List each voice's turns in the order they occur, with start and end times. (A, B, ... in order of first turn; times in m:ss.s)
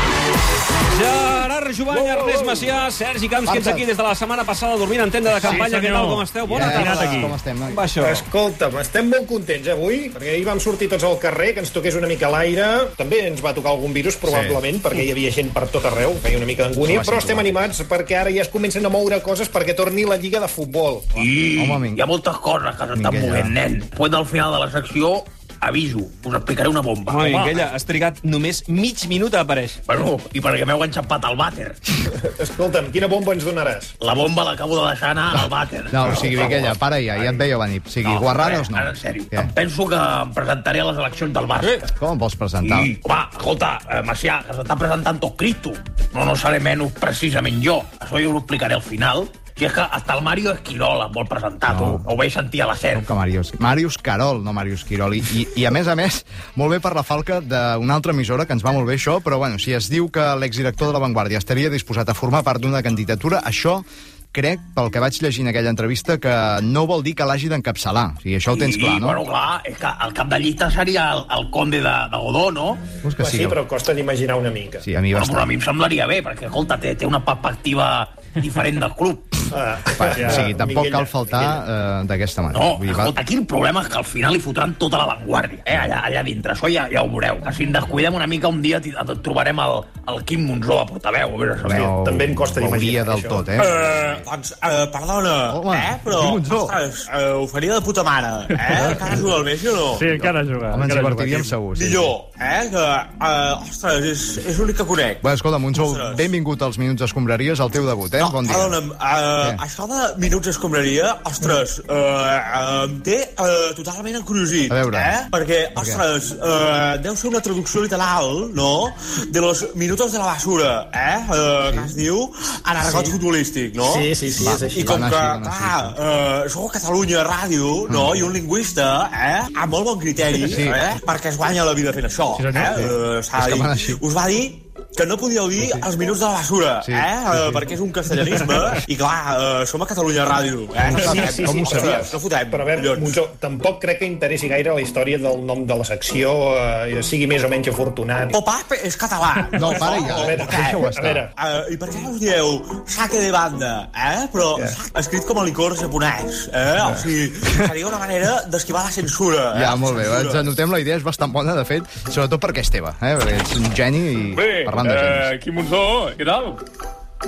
0:00.9-0:08.2 A
0:03.5-0:03.8 B
0:05.4-0:07.3 C
0:06.5-0:07.8 B
0:08.0-0:21.3 D
0:14.2-0:14.6 B
0:16.8-0:17.5 B
0:21.1-0:27.5 E
0:21.6-0:22.0 B
0:23.0-0:23.5 B
0:27.1-0:29.8 A
0:29.9-0:31.9 E
0:32.0-0:33.9 D
0:34.0-0:36.8 E
0:35.9-0:39.5 B
0:36.0-0:37.4 D
0:38.0-0:41.9 E
0:42.0-0:42.9 B
0:42.6-0:53.0 E
0:51.7-0:52.0 B
0:52.9-1:09.2 B
1:08.5-1:12.9 E
1:13.0-1:13.6 B
1:13.2-1:14.9 D
1:14.8-1:15.5 B
1:15.1-1:19.3 E
1:19.5-1:21.6 D
1:20.0-1:23.1 B
1:20.1-1:20.5 C
1:22.5-1:31.9 E
1:31.6-1:34.2 B
1:31.7-1:33.5 D
1:33.6-1:40.1 F
1:35.5-1:36.8 B
1:39.9-1:41.5 C
1:40.7-1:42.1 B
1:41.7-1:45.2 F
1:45.2-1:48.8 B
1:45.7-1:46.2 F
1:48.2-2:23.2 F
1:54.7-1:55.1 B
1:55.8-1:56.0 B
2:01.6-2:01.9 B
2:03.8-2:04.9 D
2:04.4-2:06.0 B
2:07.9-2:08.3 B
2:10.5-2:10.8 B
2:12.4-2:12.8 C
2:12.6-2:14.0 B
2:16.8-2:17.6 B
2:20.9-2:28.4 D
2:21.3-2:22.0 B
2:28.3-2:30.5 F
2:29.5-2:31.2 B
2:29.7-2:31.3 D
2:31.4-2:40.5 F
2:39.5-2:45.3 B
2:44.3-2:46.6 G